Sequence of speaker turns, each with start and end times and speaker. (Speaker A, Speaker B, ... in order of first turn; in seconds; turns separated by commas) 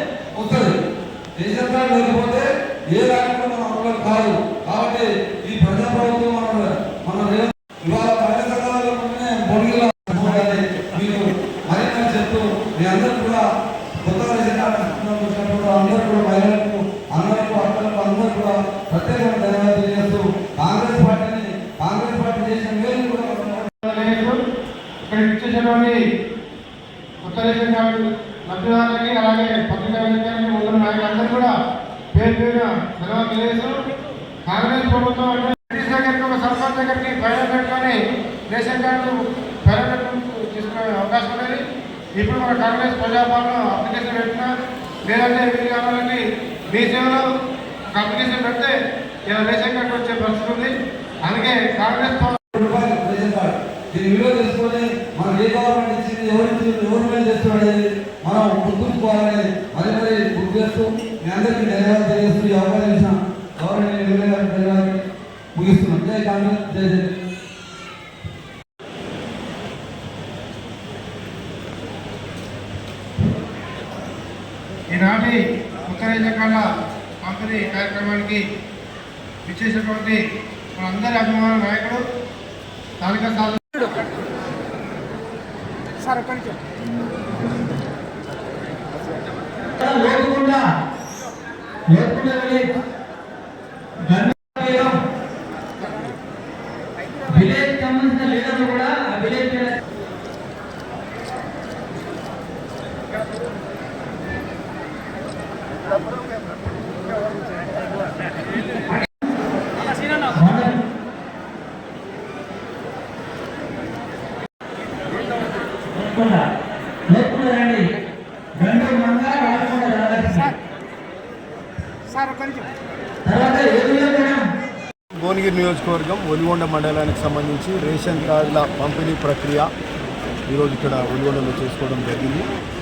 Speaker A: 0.4-0.8, Speaker A: 1.4-13.5, Speaker A: 14.0-23.9, Speaker B: 23.9-24.4, Speaker B: 25.0-26.0, Speaker B: 27.2-31.5, Speaker B: 32.1-33.8, Speaker B: 34.5-41.6, Speaker B: 42.2-44.5, Speaker B: 45.1-47.3, Speaker B: 47.9-48.7, Speaker B: 49.3-50.7, Speaker B: 51.3-52.4, Speaker A: 52.5-65.0, Speaker A: 65.5-67.0, Speaker B: 74.9-76.7, Speaker B: 77.2-78.4, Speaker B: 79.5-80.2, Speaker B: 80.8-82.0, Speaker B: 83.0-84.0, Speaker B: 86.2-86.5, Speaker C: 89.6-90.7, Speaker C: 91.9-92.7, Speaker C: 94.0-95.0, Speaker C: 97.2-99.8, Speaker C: 108.9-109.3, Speaker C: 110.2-110.8, Speaker C: 115.9-116.5, Speaker C: 117.1-117.9, Speaker C: 118.5-120.6, Speaker B: 122.2-122.6, Speaker C: 123.2-124.5, Speaker D: 125.2-129.7, Speaker D: 130.5-132.5